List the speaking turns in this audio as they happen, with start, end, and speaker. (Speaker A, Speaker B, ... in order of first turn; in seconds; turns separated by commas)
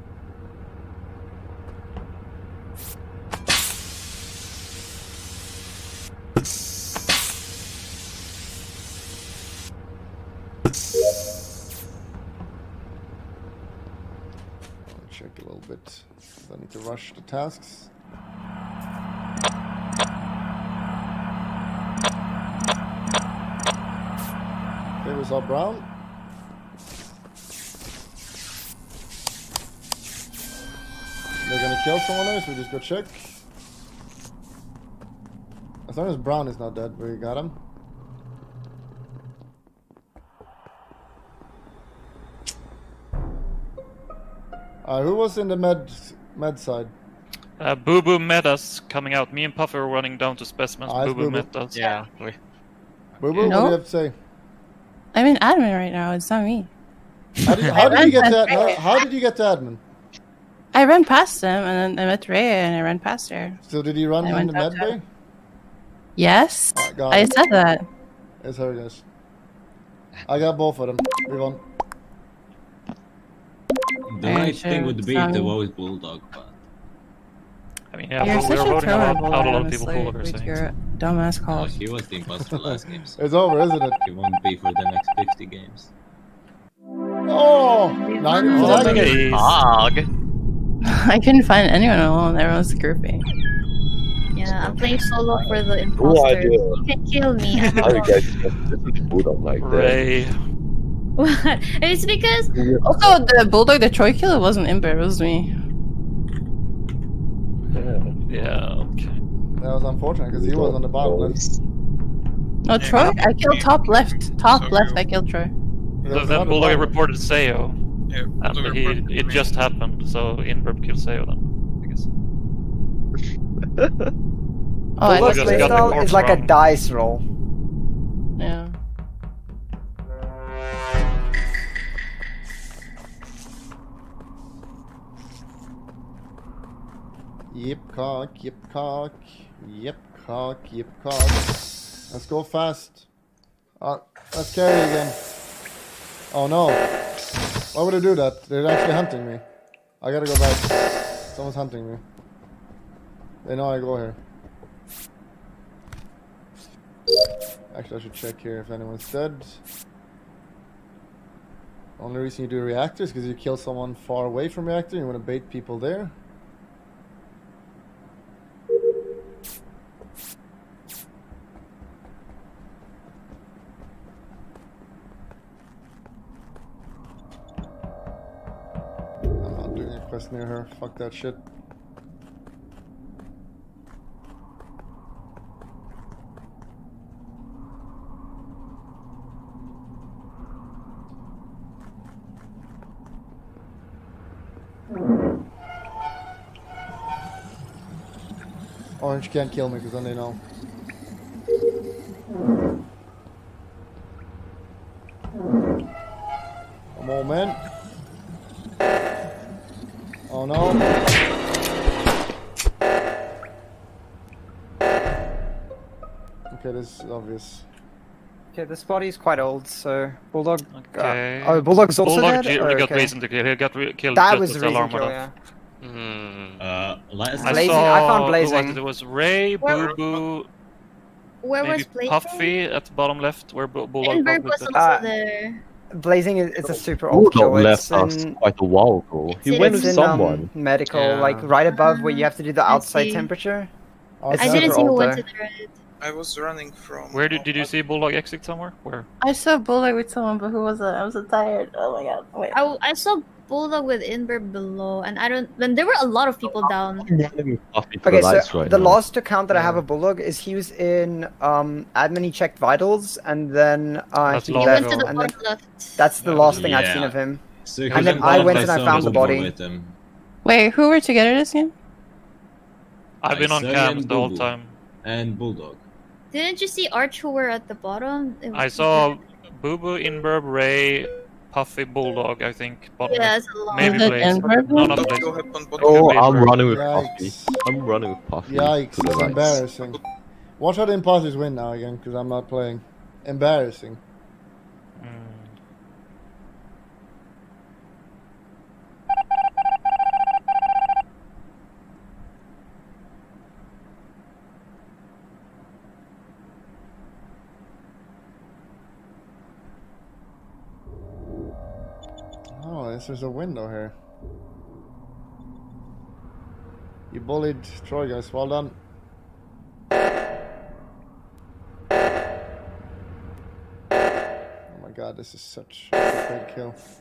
Speaker A: 14.8-17.9, Speaker A: 25.0-25.9, Speaker A: 31.4-33.4, Speaker A: 35.9-37.6, Speaker A: 44.8-46.9, Speaker B: 47.6-51.8, Speaker A: 50.9-51.5, Speaker C: 51.7-52.4, Speaker A: 53.2-54.1, Speaker D: 53.4-53.8, Speaker D: 55.1-56.7, Speaker A: 57.5-59.8, Speaker D: 57.7-58.9, Speaker D: 60.7-63.6, Speaker A: 63.6-65.1, Speaker D: 64.2-64.9, Speaker D: 66.2-67.9, Speaker A: 66.7-67.4, Speaker A: 68.4-69.0, Speaker A: 70.3-71.6, Speaker E: 74.1-76.5, Speaker D: 74.2-75.5, Speaker B: 77.9-80.6, Speaker D: 78.2-81.7, Speaker E: 81.5-83.2, Speaker A: 82.4-84.0, Speaker E: 84.0-85.9, Speaker A: 87.3-89.2, Speaker F: 87.9-88.9, Speaker B: 88.5-89.7, Speaker C: 88.6-90.1, Speaker D: 90.8-93.2, Speaker F: 94.3-98.2, Speaker G: 94.5-94.8, Speaker G: 95.3-96.8, Speaker B: 97.6-97.9, Speaker G: 97.7-100.0, Speaker B: 99.6-100.3, Speaker F: 101.2-102.5, Speaker G: 102.5-103.1, Speaker D: 102.8-105.5, Speaker G: 107.7-108.2, Speaker B: 108.3-109.2, Speaker A: 109.6-111.4, Speaker G: 110.3-111.6, Speaker D: 112.7-115.5, Speaker H: 112.8-115.0, Speaker A: 116.0-117.0, Speaker B: 116.1-117.8, Speaker H: 118.1-119.6, Speaker B: 118.4-122.1, Speaker G: 123.8-124.1, Speaker D: 125.0-126.0, Speaker I: 125.0-127.2, Speaker B: 125.1-126.5, Speaker D: 128.4-128.7, Speaker A: 137.5-141.6, Speaker A: 142.1-143.1, Speaker A: 143.8-145.2, Speaker A: 146.3-146.9, Speaker A: 147.7-149.4, Speaker A: 150.0-152.0, Speaker A: 153.4-154.2, Speaker A: 157.7-159.6, Speaker A: 162.0-166.1, Speaker A: 179.4-181.4, Speaker A: 199.0-200.4, Speaker A: 206.9-207.6, Speaker A: 210.3-210.9, Speaker A: 216.5-217.7, Speaker I: 218.6-223.1, Speaker B: 220.7-225.2, Speaker I: 224.2-225.3, Speaker C: 225.8-226.6, Speaker E: 226.6-227.9, Speaker B: 227.4-230.5, Speaker I: 227.4-228.8, Speaker H: 229.7-230.2, Speaker F: 231.4-232.5, Speaker B: 231.6-234.8, Speaker F: 234.0-235.6, Speaker I: 234.7-235.1, Speaker I: 235.9-238.4, Speaker G: 236.6-240.5, Speaker F: 239.5-240.0, Speaker D: 239.5-239.9, Speaker I: 239.6-243.7, Speaker C: 240.9-241.5, Speaker F: 241.7-243.3, Speaker A: 244.2-244.8, Speaker F: 244.3-245.7, Speaker I: 244.3-245.2, Speaker H: 246.0-247.7, Speaker B: 247.1-249.1, Speaker D: 249.2-252.6, Speaker F: 252.5-257.1, Speaker G: 256.5-259.8, Speaker I: 258.0-265.3, Speaker B: 264.2-265.1, Speaker F: 264.6-266.1, Speaker I: 266.0-269.5, Speaker E: 266.2-269.9, Speaker B: 267.9-269.3, Speaker D: 270.4-271.7, Speaker B: 273.2-274.8, Speaker E: 273.3-274.5, Speaker E: 275.0-275.8, Speaker F: 276.3-279.1, Speaker B: 278.5-286.7, Speaker F: 283.1-284.4, Speaker D: 283.8-285.1, Speaker H: 284.7-286.5, Speaker G: 285.8-289.7, Speaker A: 286.7-287.6, Speaker A: 288.5-290.0, Speaker A: 290.6-294.0, Speaker B: 295.0-295.6, Speaker A: 312.5-313.9, Speaker A: 317.1-318.8, Speaker A: 324.7-326.8